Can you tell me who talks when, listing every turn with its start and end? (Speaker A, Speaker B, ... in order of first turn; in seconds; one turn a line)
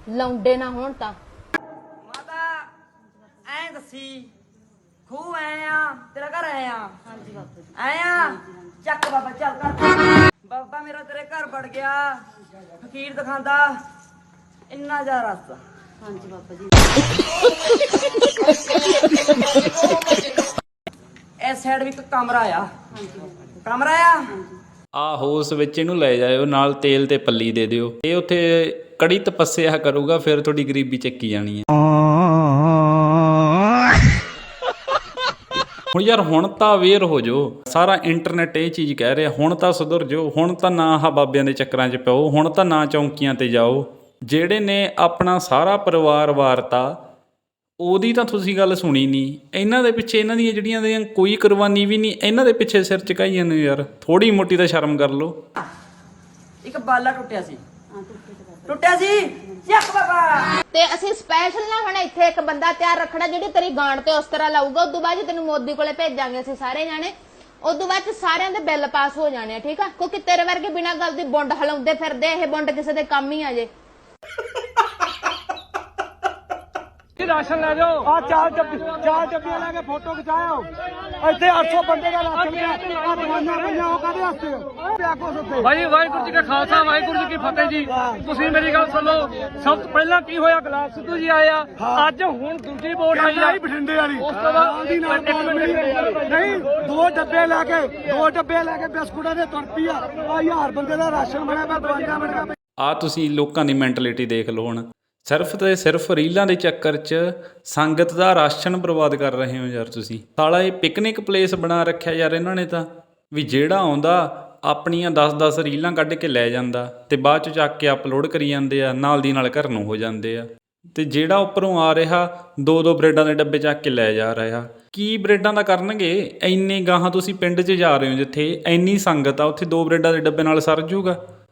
Speaker A: 0.1-1.1
Speaker B: 2.0-2.6
Speaker B: 3.5-4.3
Speaker B: 5.1-6.9
Speaker B: 7.8-12.2
Speaker B: 12.8-13.8
Speaker B: 14.7-15.6
Speaker B: 21.4-22.7
Speaker B: 23.6-24.3
Speaker C: 24.9-31.6
Speaker C: 35.9-47.0
Speaker C: 47.8-55.3
Speaker B: 56.6-57.6
Speaker B: 58.6-60.5
Speaker A: 60.7-73.7
Speaker D: 77.2-78.1
Speaker E: 78.1-80.7
Speaker E: 81.2-85.7
Speaker D: 81.3-81.7
Speaker D: 82.3-83.8
Speaker D: 85.6-93.6
Speaker E: 93.1-102.5
Speaker D: 94.1-96.5
Speaker C: 102.8-131.2